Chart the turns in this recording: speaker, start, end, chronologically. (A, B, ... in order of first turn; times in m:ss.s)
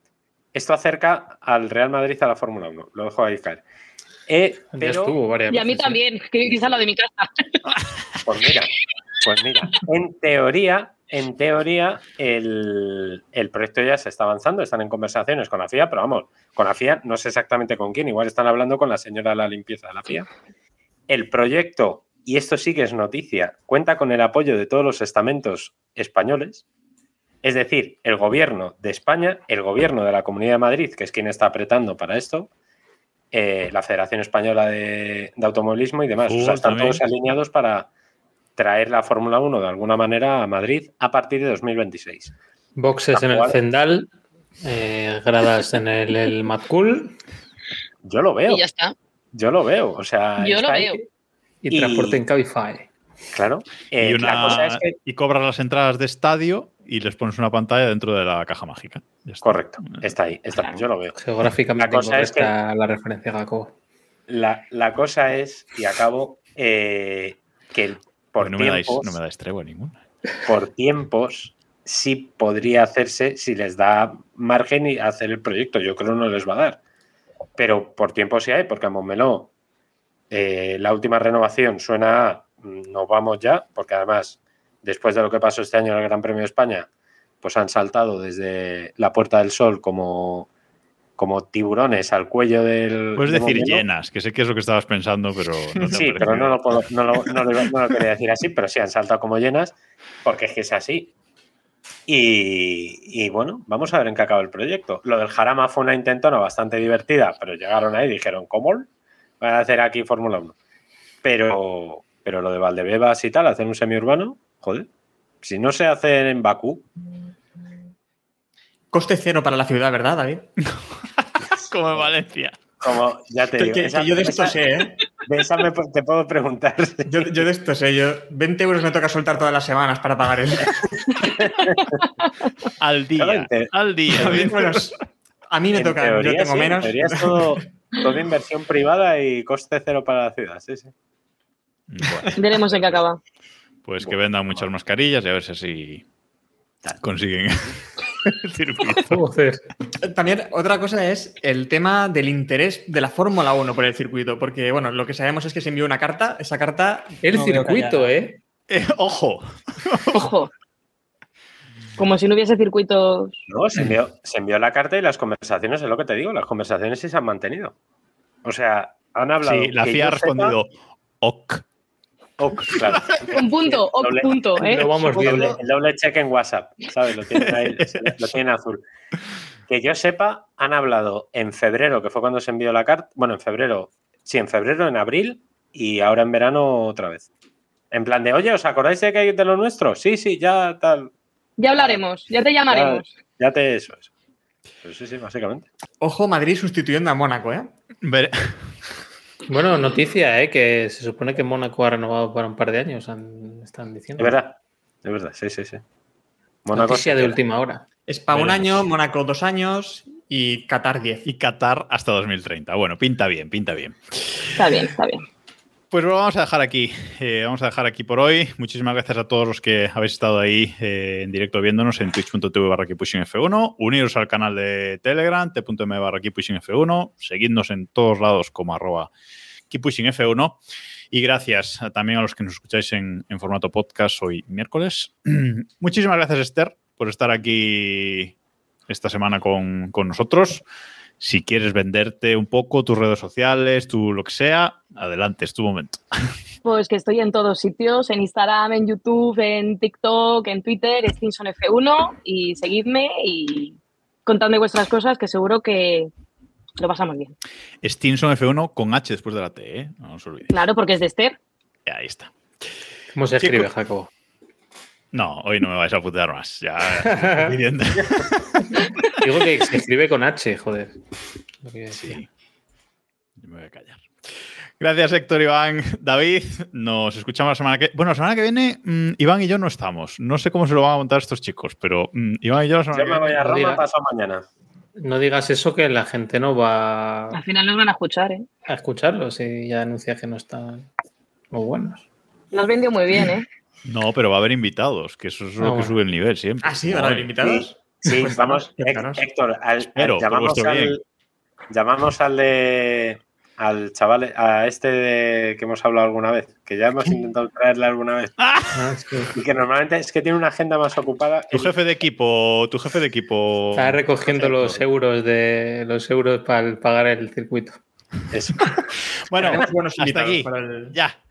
0:00.5-0:03.6 A
0:04.3-0:05.2 A
0:04.7-0:06.0 B
0:05.5-0:07.6 C
0:08.2-0:08.7 A
0:09.2-0:20.3 A
0:21.1-0:26.6 A
0:27.4-0:32.5 A
0:33.3-0:37.9 A
0:36.3-0:37.0 D
0:38.6-0:42.3 A
0:42.8-0:44.1 B
0:43.1-0:43.6 A
0:44.6-0:47.2 B
0:48.0-0:48.6 A
0:48.5-0:48.9 C
0:49.3-0:51.0 A
0:50.4-0:51.0 C
0:51.6-0:52.9 B
0:51.7-0:52.2 A
0:53.3-0:54.9 A
0:54.0-1:00.1 D
0:59.4-1:01.2 A
1:01.2-1:03.7 B
1:01.8-1:02.5 A
1:04.3-1:09.2 A
1:08.4-1:10.0 D
1:10.4-1:16.8 A
1:17.6-1:19.5 A
1:20.3-1:26.9 A
1:27.4-1:30.5 A
1:31.2-1:33.9 A
1:33.2-1:36.6 D
1:35.9-1:41.1 A
1:42.1-1:48.9 A
1:49.4-1:50.6 A
1:51.2-1:54.9 A
1:55.4-1:56.9 A
1:58.9-2:00.5 E
2:00.8-2:02.6 D
2:02.8-2:07.4 A
2:03.6-2:05.0 E
2:07.1-2:11.1 E
2:11.2-2:12.0 A
2:12.8-2:14.8 D
2:13.2-2:13.7 A
2:14.1-2:17.6 E
2:15.7-2:20.9 A
2:21.9-2:23.0 D
2:22.3-2:23.2 C
2:23.8-2:26.0 D
2:24.0-2:24.6 A
2:27.0-2:29.2 D
2:29.1-2:29.6 B
2:30.0-2:38.2 E
2:37.2-2:38.4 B
2:38.7-2:40.3 D
2:40.1-2:40.5 C
2:42.0-2:43.4 C
2:43.5-2:47.8 A
2:48.4-2:50.6 A
2:49.4-2:51.6 D
2:52.4-2:54.6 A
2:52.6-2:53.2 D
2:53.3-2:55.0 C
2:54.6-2:55.6 B
2:55.1-2:58.8 A
2:55.2-2:55.6 E
2:57.5-2:58.4 D
2:59.7-3:07.3 A
3:07.9-3:11.1 A
3:11.6-3:13.1 C
3:11.8-3:12.0 A
3:12.7-3:14.1 A
3:14.8-3:15.7 A
3:16.0-3:17.7 E
3:18.0-3:18.6 D
3:19.5-3:24.4 B
3:24.2-3:25.8 A
3:26.6-3:27.4 A
3:26.7-3:28.7 B
3:28.1-3:31.3 E
3:31.3-3:34.8 D
3:34.6-3:35.2 C
3:35.9-3:49.1 D
3:49.7-3:50.6 D
3:51.1-3:58.3 D
3:58.9-4:00.6 D
4:01.2-4:06.0 D
4:06.6-4:16.1 C
4:16.8-4:17.3 C
4:17.8-4:20.5 D
4:20.5-4:21.4 C
4:21.9-4:22.3 D
4:23.1-4:24.1 B
4:23.4-4:23.7 D
4:25.1-4:29.1 D
4:27.2-4:27.5 B
4:29.2-4:31.0 B
4:31.6-4:32.2 B
4:31.9-4:32.3 D
4:33.4-4:34.1 D
4:34.8-4:43.4 D
4:42.9-4:44.4 A
4:43.4-4:43.8 B
4:45.0-4:47.4 B
4:47.3-4:48.5 C
4:48.7-4:50.9 B
4:51.5-4:52.0 B
4:52.5-4:53.5 C
4:53.8-4:57.3 D
4:55.6-4:56.0 B
4:56.6-4:59.3 E
4:57.4-5:01.0 A
4:59.9-5:01.0 D
5:01.7-5:08.4 A
5:08.4-5:08.7 D
5:08.7-5:09.3 B
5:09.3-5:11.7 A
5:11.5-5:14.8 D
5:13.8-5:17.8 B
5:18.3-5:18.7 A
5:19.2-5:21.2 D
5:19.4-5:21.0 E